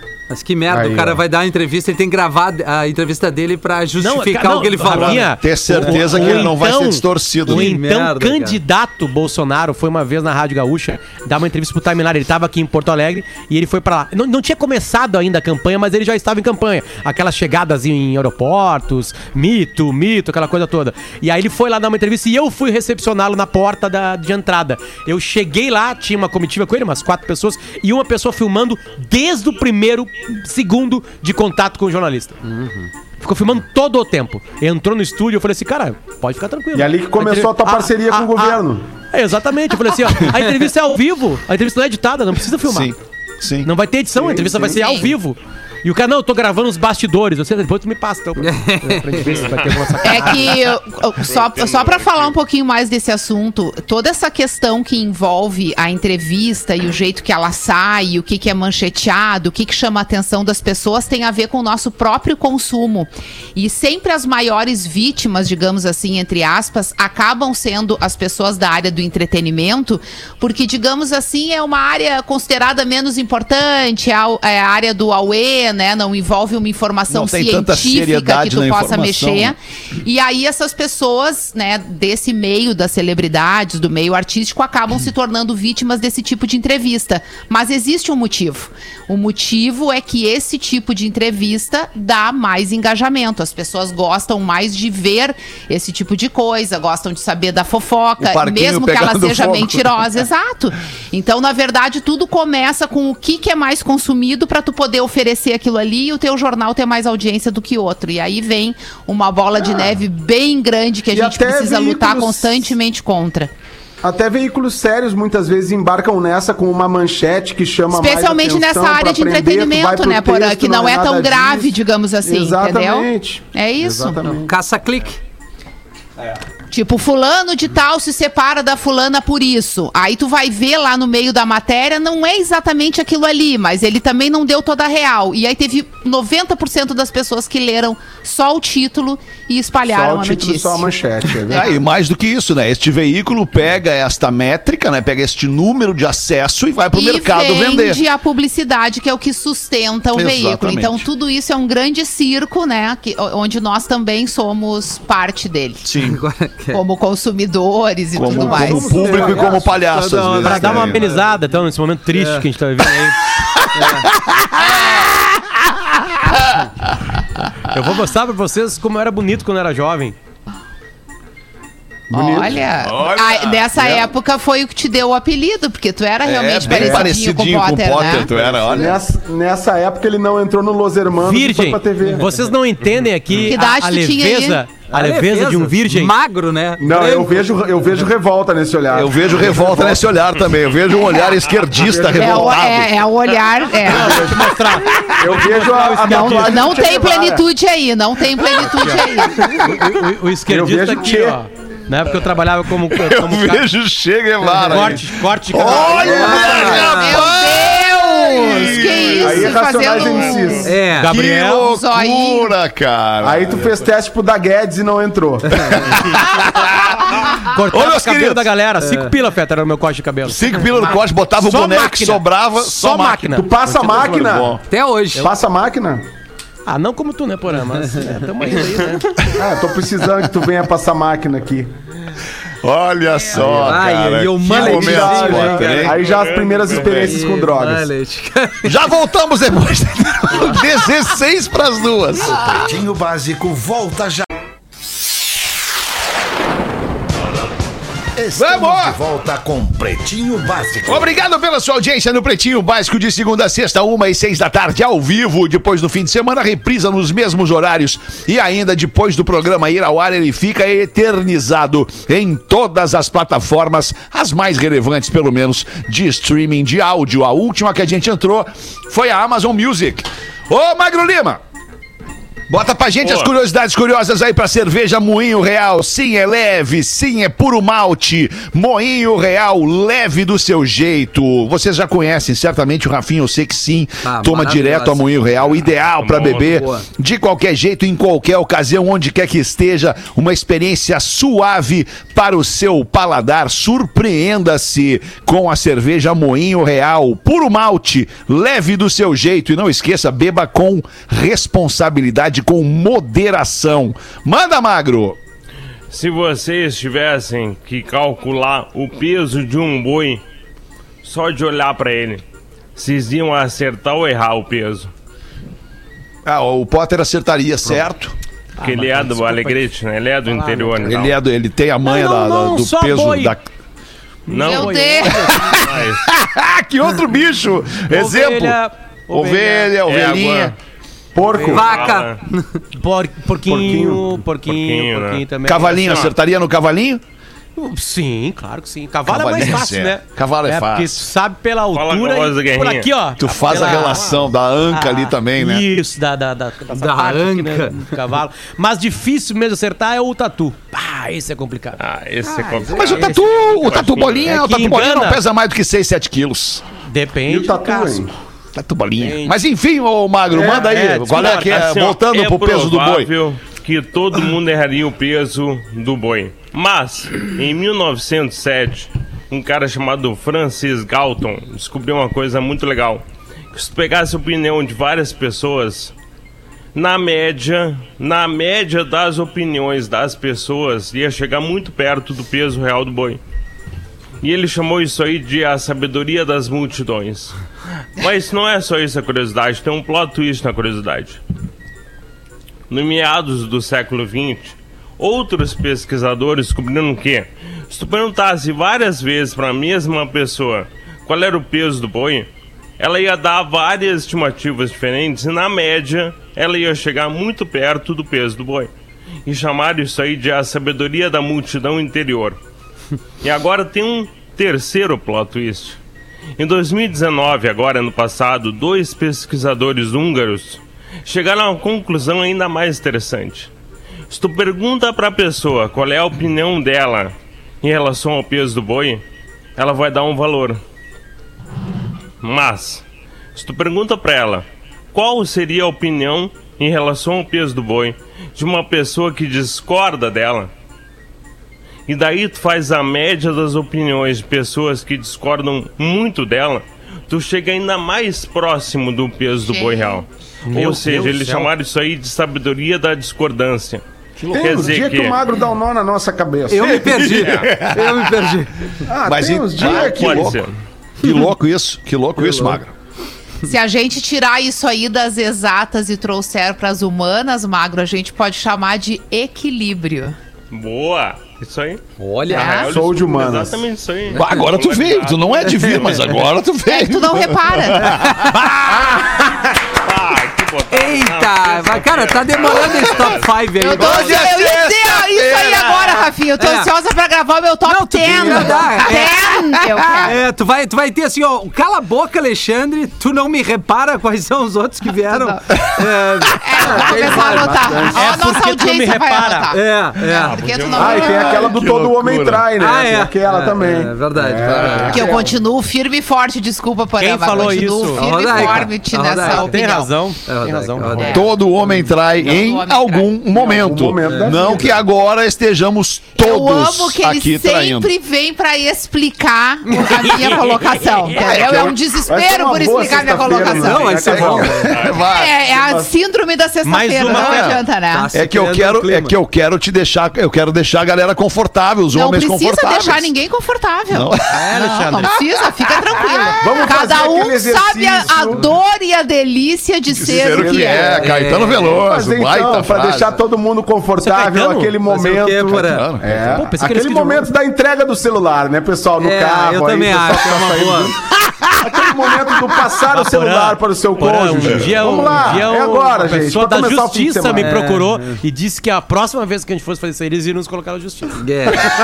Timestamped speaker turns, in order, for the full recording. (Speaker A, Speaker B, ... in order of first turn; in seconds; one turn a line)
Speaker A: 0.3-6.5
Speaker B: 0.7-1.2
Speaker C: 4.0-32.4
Speaker D: 5.0-7.7
Speaker A: 7.5-8.6
Speaker A: 32.5-32.9
Speaker C: 33.2-38.6
Speaker B: 36.7-38.8
Speaker C: 39.1-42.9
Speaker D: 42.6-43.7
Speaker C: 43.6-50.6
Speaker B: 44.2-44.8
Speaker E: 44.7-45.1
Speaker A: 48.4-49.4
Speaker F: 49.2-50.3
Speaker E: 50.0-113.5
Speaker F: 51.2-52.4
Speaker D: 77.1-79.5
Speaker D: 98.2-100.0
Speaker B: 109.6-109.9
Speaker B: 111.1-112.7
Speaker B: 114.0-124.5
Speaker E: 117.9-124.2
Speaker A: 124.3-125.2
Speaker E: 126.7-140.9
Speaker B: 139.9-141.7
Speaker D: 141.5-148.0
Speaker E: 146.9-155.9
Speaker D: 150.1-151.1
Speaker D: 155.8-156.2
Speaker A: 156.0-156.8
Speaker E: 156.7-159.2
Speaker D: 158.2-161.1
Speaker B: 158.2-159.7
Speaker A: 158.9-161.3
Speaker C: 160.4-163.2
Speaker A: 162.1-162.5
Speaker A: 163.7-164.1
Speaker D: 163.8-167.0
Speaker C: 167.7-170.2
Speaker B: 172.1-172.6
Speaker E: 172.1-178.3
Speaker D: 172.8-174.1
Speaker D: 176.2-179.0
Speaker B: 176.7-177.1
Speaker A: 178.4-178.7
Speaker B: 178.7-182.3
Speaker C: 181.2-186.2
Speaker E: 183.5-184.6
Speaker A: 184.8-187.6
Speaker B: 186.8-190.1
Speaker D: 188.9-193.1
Speaker B: 191.7-192.6
Speaker E: 192.2-194.2
Speaker C: 193.9-196.7
Speaker B: 193.9-194.5
Speaker D: 194.8-195.3
Speaker B: 195.2-197.4
Speaker E: 196.0-199.6
Speaker C: 198.8-203.6
Speaker B: 200.5-201.4
Speaker D: 202.9-209.6
Speaker C: 204.6-206.3
Speaker A: 205.9-207.3
Speaker E: 206.1-210.8
Speaker B: 209.2-210.8
Speaker F: 210.0-210.7
Speaker A: 210.7-211.1
Speaker C: 210.9-211.7
Speaker D: 211.0-213.7
Speaker E: 211.6-212.5
Speaker B: 213.2-216.2
Speaker D: 215.8-218.5
Speaker C: 217.4-220.8
Speaker A: 218.8-219.1
Speaker D: 220.2-224.6
Speaker C: 221.4-224.5
Speaker B: 223.3-224.6
Speaker A: 224.7-225.3
Speaker B: 225.2-226.0
Speaker C: 226.7-229.1
Speaker B: 229.3-231.7
Speaker D: 232.6-236.0
Speaker B: 233.3-233.7
Speaker A: 233.5-236.0
Speaker B: 234.4-237.9
Speaker C: 234.6-235.5
Speaker F: 235.8-237.2
Speaker D: 236.8-237.1
Speaker A: 237.1-238.7
Speaker D: 238.7-242.6
Speaker G: 242.2-244.3
Speaker G: 248.2-251.2
Speaker D: 248.3-249.0
Speaker D: 250.8-271.4
Speaker D: 272.5-305.2
Speaker F: 273.0-273.3
Speaker A: 284.0-285.0
Speaker F: 286.0-286.4
Speaker A: 286.3-286.8
Speaker F: 305.9-310.2
Speaker F: 311.0-312.2
Speaker F: 312.8-314.9
Speaker D: 316.2-318.1
Speaker C: 318.6-319.6
Speaker F: 318.6-321.2
Speaker C: 320.3-321.0
Speaker D: 320.8-323.4
Speaker C: 321.8-323.4
Speaker F: 324.3-324.8
Speaker C: 324.3-325.5
Speaker E: 324.3-325.4
Speaker D: 325.2-328.6
Speaker F: 325.5-326.1
Speaker C: 327.9-330.5
Speaker D: 329.1-330.6
Speaker B: 331.1-332.0
Speaker C: 331.3-331.9
Speaker A: 331.5-332.5
Speaker F: 331.5-332.2
Speaker C: 332.8-336.1
Speaker B: 333.5-334.2
Speaker F: 334.5-336.1
Speaker D: 335.4-337.0
Speaker C: 337.6-351.8
Speaker D: 339.1-341.1
Speaker F: 341.7-344.0
Speaker D: 343.2-345.7
Speaker A: 346.7-347.9
Speaker F: 351.8-354.4
Speaker A: 352.3-353.0
Speaker D: 352.7-356.6
Speaker C: 352.9-353.2
Speaker C: 354.3-355.2
Speaker C: 356.9-358.0
Speaker B: 357.3-358.1
Speaker D: 358.5-363.1
Speaker C: 359.0-359.4
Speaker C: 360.3-361.6
Speaker F: 361.1-375.9
Speaker F: 376.8-383.2
Speaker F: 384.2-387.4
Speaker F: 388.0-391.2
Speaker F: 392.7-402.3
Speaker F: 402.8-408.7
Speaker F: 409.3-412.4
Speaker F: 413.2-415.8
Speaker F: 416.4-423.5
Speaker F: 424.1-429.0
Speaker F: 429.6-430.6
Speaker F: 432.2-440.5
Speaker F: 441.9-453.8
Speaker E: 449.4-450.0
Speaker C: 450.5-451.5
Speaker D: 454.2-454.7
Speaker B: 454.3-457.0
Speaker F: 454.3-455.2
Speaker A: 456.5-458.8
Speaker D: 456.6-458.4
Speaker F: 457.1-457.5
Speaker B: 458.9-460.4
Speaker D: 459.0-460.4
Speaker F: 459.6-460.5
Speaker D: 461.0-462.7
Speaker A: 462.2-462.6
Speaker E: 463.4-470.2
Speaker F: 470.5-476.1
Speaker A: 472.0-472.6
Speaker E: 472.3-472.7
Speaker B: 472.6-473.6
Speaker D: 474.1-479.0
Speaker E: 476.7-478.0
Speaker F: 479.7-483.3
Speaker A: 480.7-484.2
Speaker D: 482.5-483.1
Speaker E: 483.6-490.2
Speaker D: 483.7-486.1
Speaker A: 486.4-486.7
Speaker A: 487.7-489.4
Speaker A: 489.9-498.0
Speaker E: 495.1-495.6
Speaker D: 495.6-495.8
Speaker E: 496.4-501.5
Speaker B: 496.6-498.0
Speaker C: 497.9-499.5
Speaker A: 499.5-500.4
Speaker F: 500.0-501.3
Speaker B: 500.7-505.4
Speaker D: 500.9-502.5
Speaker A: 502.6-505.1
Speaker E: 504.9-509.9
Speaker C: 507.0-508.5
Speaker A: 507.9-509.6
Speaker C: 509.2-511.2
Speaker A: 510.2-511.9
Speaker E: 510.9-511.4
Speaker D: 511.1-517.9
Speaker E: 512.2-513.2
Speaker B: 513.3-514.8
Speaker A: 514.1-514.4
Speaker E: 516.2-524.3
Speaker C: 519.8-520.9
Speaker D: 521.1-521.8
Speaker B: 522.1-524.9
Speaker A: 523.5-524.8
Speaker D: 524.1-525.4
Speaker F: 524.7-525.0
Speaker E: 525.0-528.1
Speaker B: 525.5-525.9
Speaker C: 526.6-527.5
Speaker D: 527.1-527.6
Speaker A: 527.9-529.2
Speaker D: 528.1-533.1
Speaker E: 531.9-541.0
Speaker D: 533.9-534.5
Speaker C: 534.4-535.1
Speaker D: 535.0-536.3
Speaker B: 536.4-538.5
Speaker D: 540.0-543.2
Speaker B: 540.1-541.1
Speaker A: 541.0-541.7
Speaker B: 541.7-557.5
Speaker C: 544.0-544.8
Speaker A: 544.9-545.9
Speaker D: 545.6-546.2
Speaker C: 546.3-547.3
Speaker A: 549.0-550.9
Speaker C: 552.9-561.2
Speaker A: 557.4-558.1
Speaker A: 561.2-561.7